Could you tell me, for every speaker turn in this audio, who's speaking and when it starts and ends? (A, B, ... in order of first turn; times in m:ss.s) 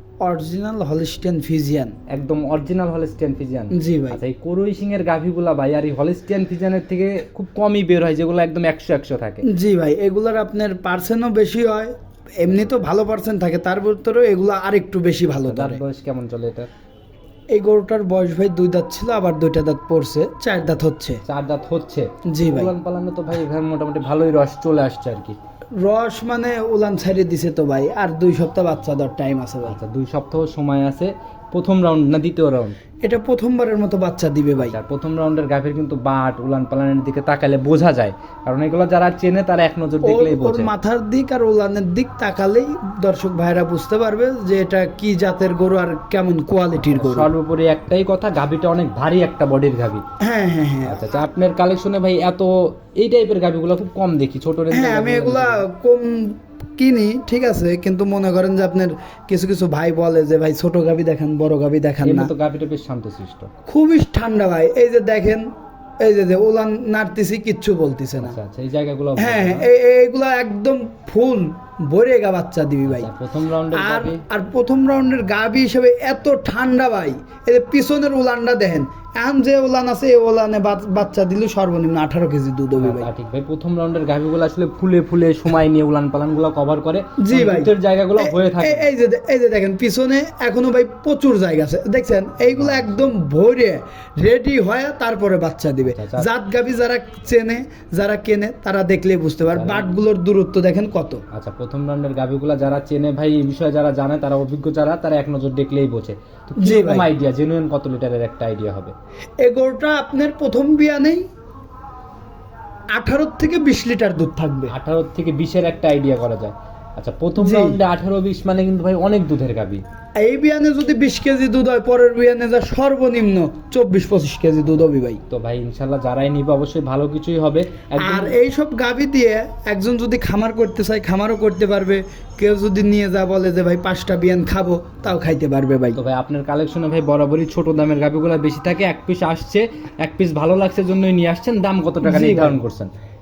0:00.2-0:02.0 A
0:02.1-0:09.4 B
0:03.7-0:04.2 A
0:09.4-0:15.8 A
0:12.5-0:12.8 B
0:15.4-0:16.7 B
0:17.5-0:21.2 A
0:21.2-0:25.4 B
0:22.3-0:22.7 A
0:25.8-0:29.8 A
0:29.6-0:32.7 B
0:33.0-0:34.8 A
0:34.6-0:40.7 B
0:40.0-0:47.3 A
0:46.9-0:50.0 B
0:50.2-0:51.1 A
0:50.8-0:55.6 B
0:54.7-1:02.3 A
1:02.0-1:03.5 B
1:03.6-1:05.5 A
1:06.0-1:08.4 A
1:08.2-1:09.7 B
1:09.2-1:13.1 A
1:12.8-1:14.2 B
1:13.7-1:23.1 A
1:22.8-1:28.9 B
1:27.2-1:41.2 A
1:32.5-1:33.1 B
1:35.8-1:36.3 B
1:39.5-1:40.0 B
1:41.3-1:48.9 B
1:46.6-1:47.1 A
1:49.4-1:51.2 A
1:52.9-1:54.7 A
1:54.7-1:59.8 B
1:57.4-1:57.8 A
2:00.2-2:05.2 A
2:05.3-2:08.4 B
2:08.0-2:16.0 A
2:15.9-2:22.9 B
2:22.0-2:22.6 A